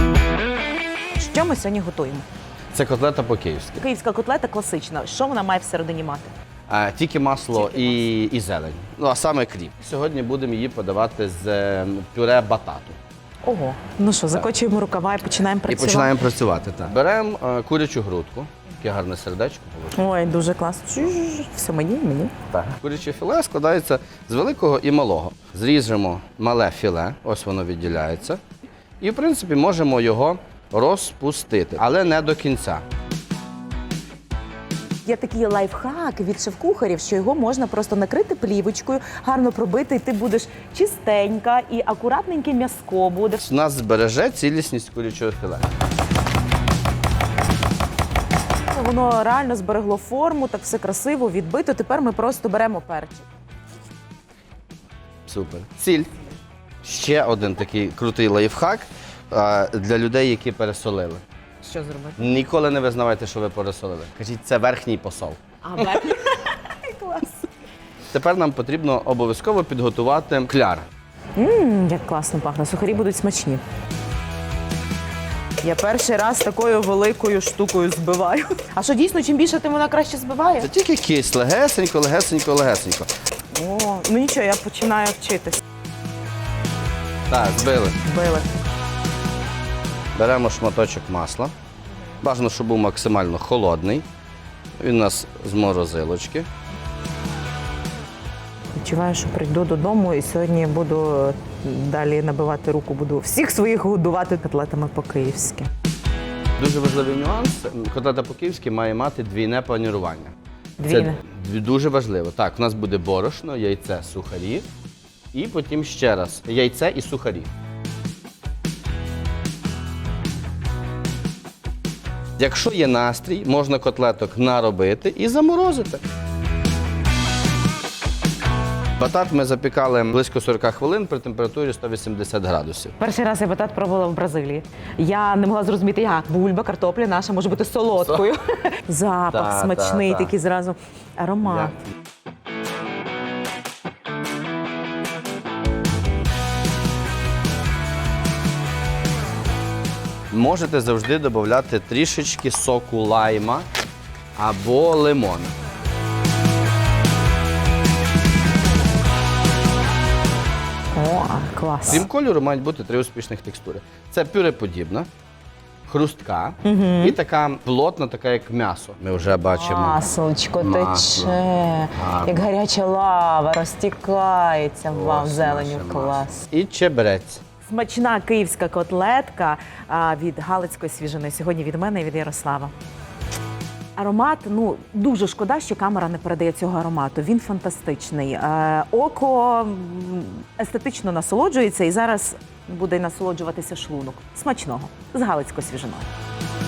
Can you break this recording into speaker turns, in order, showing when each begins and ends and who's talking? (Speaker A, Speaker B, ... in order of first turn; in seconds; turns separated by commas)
Speaker A: 1.1-2.3, Speaker B: 2.7-3.8, Speaker A: 3.8-6.3, Speaker B: 6.7-13.0, Speaker A: 7.5-8.1, Speaker A: 13.4-16.2, Speaker B: 15.7-20.0, Speaker A: 19.9-22.5, Speaker B: 22.5-28.4, Speaker B: 29.0-32.8, Speaker A: 35.0-43.4, Speaker B: 43.4-45.7, Speaker A: 48.7-53.2, Speaker B: 55.3-56.1, Speaker B: 56.8-61.2, Speaker A: 61.6-62.2, Speaker B: 62.2-66.0, Speaker A: 65.6-67.3, Speaker B: 68.1-70.9, Speaker A: 71.3-73.6, Speaker A: 75.6-80.7, Speaker B: 80.6-83.1, Speaker A: 83.5-85.6, Speaker B: 87.3-88.0, Speaker A: 88.0-88.5, Speaker B: 90.2-91.5, Speaker B: 92.2-94.0, Speaker B: 94.8-96.5, Speaker A: 98.8-105.7, Speaker B: 106.6-110.3, Speaker A: 110.8-111.2, Speaker B: 110.9-114.7, Speaker B: 115.3-117.5, Speaker B: 122.4-126.0, Speaker B: 129.0-132.9, Speaker A: 133.0-141.8, Speaker B: 137.9-138.3, Speaker B: 139.3-140.3, Speaker B: 141.5-141.7, Speaker B: 150.3-153.7, Speaker B: 154.3-155.5, Speaker A: 160.9-162.1, Speaker B: 161.9-165.1, Speaker B: 165.9-170.0, Speaker A: 166.6-167.2, Speaker A: 169.4-176.4, Speaker B: 170.6-171.4, Speaker B: 171.9-172.4, Speaker B: 174.9-177.4, Speaker A: 177.6-182.7, Speaker A: 184.0-196.1